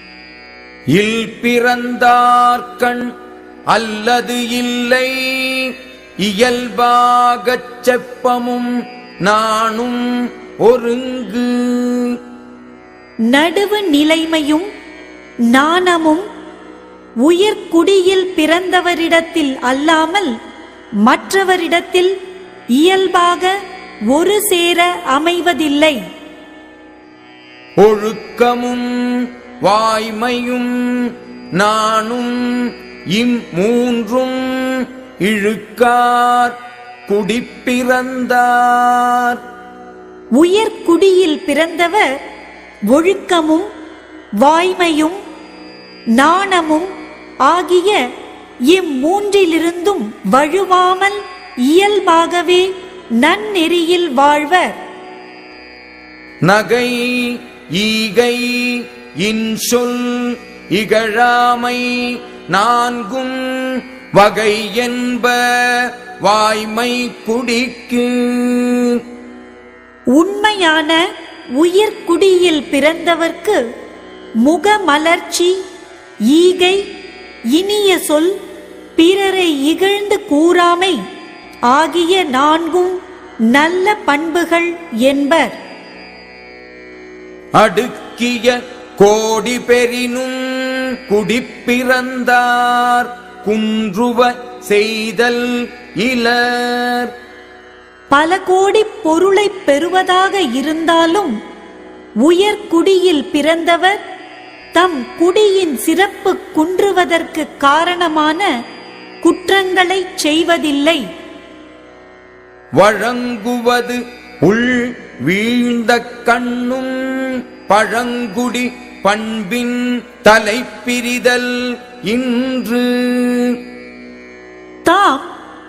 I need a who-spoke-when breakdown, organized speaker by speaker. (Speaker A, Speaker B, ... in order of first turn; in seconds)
Speaker A: 0.9-3.1, 3.7-8.7, 9.2-10.1, 10.6-12.2, 27.8-39.4, 56.5-61.9, 62.5-69.0, 87.6-97.1, 112.8-123.6
Speaker B: 13.3-14.7, 15.5-16.2, 17.2-20.3, 21.1-22.1, 22.8-23.5, 24.1-26.0, 40.4-42.1, 42.9-43.7, 44.4-45.2, 46.2-46.9, 47.5-48.0, 48.7-52.7, 53.2-54.7, 70.2-71.0, 71.6-73.6, 74.5-75.5, 76.3-76.8, 77.5-78.3, 79.0-81.0, 81.7-83.0, 83.5-85.6, 98.1-101.3, 102.2-104.0, 104.7-108.4, 109.2-111.0, 124.8-125.3